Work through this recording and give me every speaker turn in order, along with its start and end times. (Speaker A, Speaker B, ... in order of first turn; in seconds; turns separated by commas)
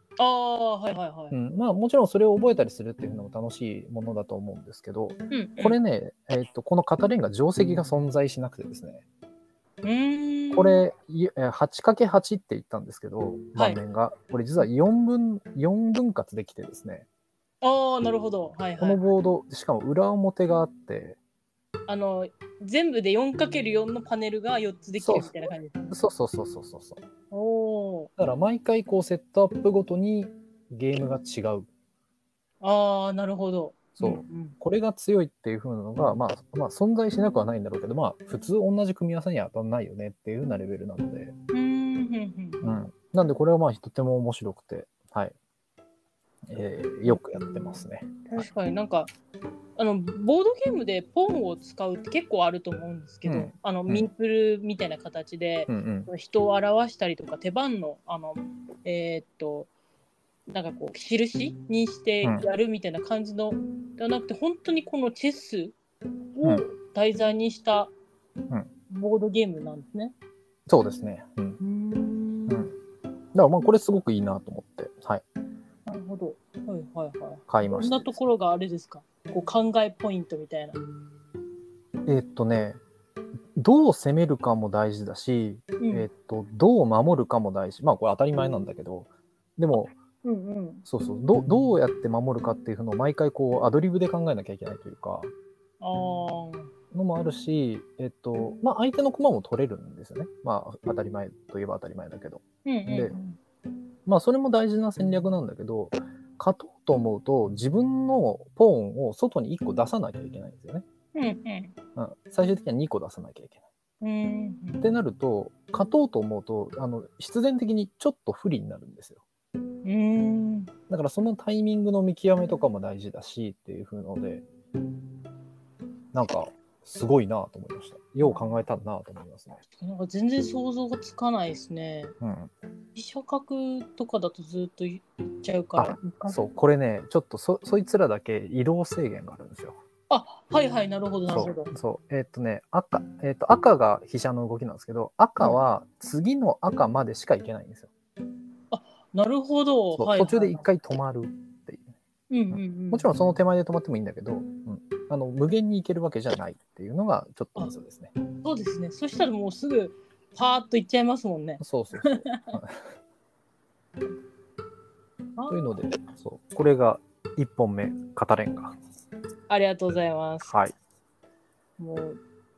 Speaker A: 0.2-1.4, Speaker B: 1.3-9.0, Speaker A: 5.3-5.8, Speaker A: 9.8-10.8, Speaker B: 10.5-17.1, Speaker A: 13.6-13.8, Speaker A: 17.6-19.0, Speaker B: 18.8-21.2, Speaker A: 21.9-26.0, Speaker B: 25.0-27.0, Speaker A: 27.3-28.1, Speaker B: 28.2-31.7, Speaker A: 32.6-34.5, Speaker B: 34.0-41.3, Speaker A: 41.5-42.8, Speaker B: 42.6-45.3, Speaker B: 46.5-48.5, Speaker A: 47.1-49.1, Speaker A: 49.8-59.7, Speaker B: 53.2-54.1, Speaker B: 55.7-56.1, Speaker A: 60.5-65.8, Speaker A: 66.4-67.9, Speaker A: 68.9-70.1, Speaker B: 70.7-71.6, Speaker A: 71.6-72.7, Speaker B: 73.3-75.2, Speaker A: 75.9-80.8, Speaker B: 77.5-78.2, Speaker B: 82.1-82.8, Speaker B: 83.6-89.9, Speaker A: 85.8-86.1, Speaker A: 90.2-90.8, Speaker B: 90.9-95.3, Speaker A: 95.8-96.7, Speaker B: 96.9-103.2, Speaker A: 102.7-103.4, Speaker B: 104.1-110.8, Speaker A: 111.2-111.7, Speaker B: 112.0-113.6, Speaker A: 114.0-114.9, Speaker B: 114.8-119.2, Speaker A: 119.8-120.7, Speaker B: 120.9-124.4, Speaker B: 126.1-129.6, Speaker A: 128.2-128.6, Speaker A: 129.8-132.1, Speaker B: 132.2-132.5, Speaker A: 132.9-136.4, Speaker B: 135.8-139.8, Speaker A: 140.1-141.7, Speaker B: 141.3-147.9, Speaker A: 148.7-150.6, Speaker B: 149.9-151.9, Speaker A: 152.3-153.1, Speaker B: 152.5-158.1, Speaker A: 158.4-162.6, Speaker B: 161.6-162.8, Speaker A: 165.4-165.7, Speaker B: 165.5-168.8, Speaker A: 169.5-170.6, Speaker B: 170.4-170.7, Speaker A: 171.8-172.2